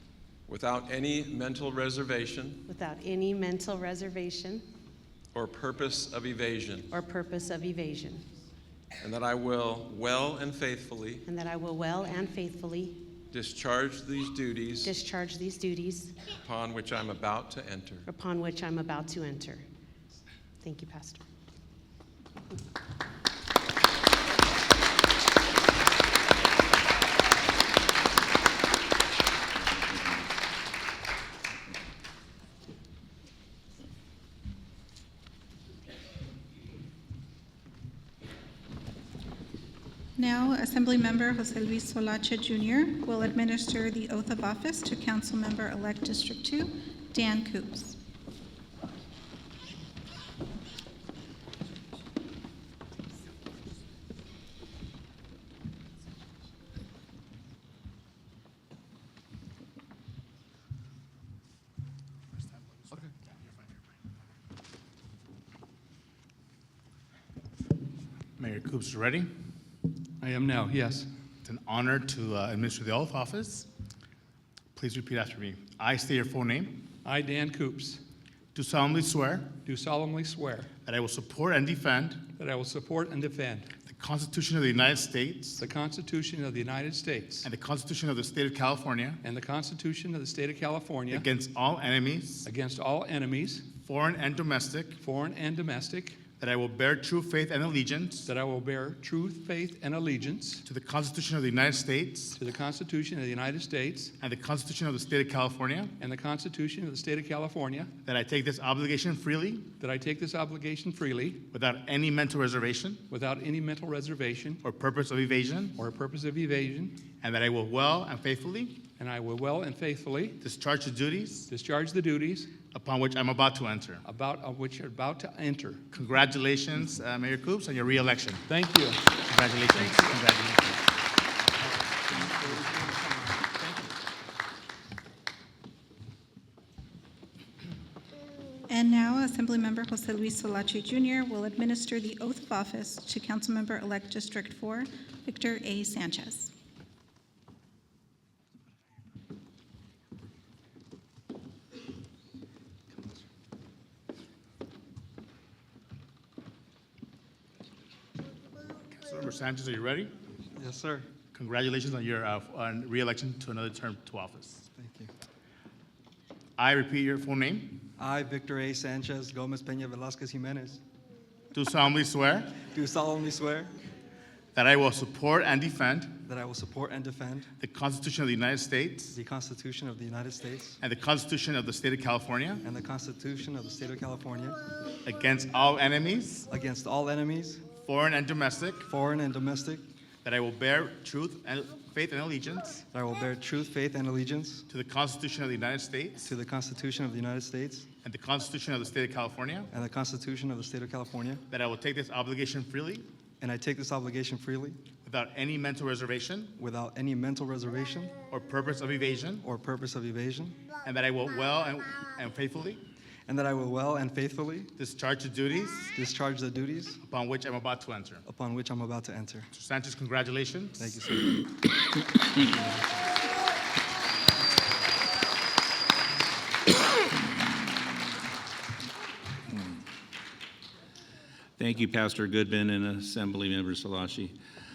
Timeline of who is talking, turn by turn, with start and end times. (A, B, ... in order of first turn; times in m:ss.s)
0:00.5-0:02.6 A
0:02.6-0:04.7 B
0:05.3-0:06.9 A
0:06.8-0:08.3 B
0:09.0-0:11.2 A
0:11.2-0:13.1 B
0:13.3-0:14.9 A
0:14.8-0:16.2 B
0:16.3-0:18.0 A
0:18.0-0:19.7 B
0:20.6-0:21.2 B
0:40.2-0:48.0 C
1:08.4-1:09.3 D
1:10.2-1:11.1 E
1:11.4-1:13.7 D
1:14.7-1:16.8 D
1:17.0-1:18.0 E
1:18.5-1:19.5 D
1:19.6-1:20.7 E
1:20.8-1:22.2 D
1:22.4-1:23.7 E
1:23.8-1:25.6 D
1:25.6-1:27.5 E
1:27.4-1:29.2 D
1:29.2-1:31.3 E
1:31.1-1:32.4 D
1:32.4-1:33.6 E
1:33.8-1:35.0 D
1:35.0-1:36.2 E
1:36.4-1:38.3 D
1:38.2-1:40.6 E
1:40.6-1:42.4 D
1:42.4-1:44.1 E
1:44.2-1:45.9 D
1:46.0-1:47.9 E
1:48.0-1:49.7 D
1:49.8-1:51.4 E
1:51.5-1:53.0 D
1:53.1-1:54.6 E
1:54.6-1:55.8 D
1:55.8-1:57.0 E
1:57.2-1:58.8 D
1:59.0-2:00.4 E
2:00.4-2:01.5 D
2:01.5-2:02.5 E
2:02.7-2:04.0 D
2:04.0-2:05.9 E
2:05.9-2:08.5 D
2:08.5-2:09.1 E
2:09.3-2:10.8 D
2:09.7-2:10.2 E
2:11.6-2:13.9 E
2:18.7-2:26.5 C
2:38.9-2:40.1 D
2:40.6-2:41.0 F
2:41.3-2:44.6 D
2:44.8-2:45.1 F
2:46.6-2:47.8 D
2:48.0-2:50.8 F
2:51.5-2:52.5 D
2:52.6-2:53.7 F
2:54.5-2:56.2 D
2:56.2-2:57.5 F
2:57.6-2:59.1 D
2:59.1-3:00.8 F
3:00.8-3:02.6 D
3:02.6-3:04.6 F
3:05.0-3:06.5 D
3:06.5-3:07.6 F
3:07.8-3:08.8 D
3:08.8-3:09.8 F
3:10.2-3:12.8 D
3:12.9-3:14.6 F
3:14.7-3:16.3 D
3:16.2-3:17.9 F
3:18.0-3:19.7 D
3:19.7-3:21.4 F
3:21.5-3:23.0 D
3:23.4-3:24.8 F
3:25.0-3:26.5 D
3:26.6-3:28.2 F
3:28.3-3:29.4 D
3:29.4-3:30.6 F
3:30.8-3:32.8 D
3:33.3-3:34.7 F
3:34.8-3:35.9 D
3:35.9-3:37.0 F
3:37.0-3:38.2 D
3:38.2-3:39.5 F
3:39.5-3:40.9 D
3:40.8-3:41.4 F
3:42.4-3:43.1 F
3:51.6-3:54.4 G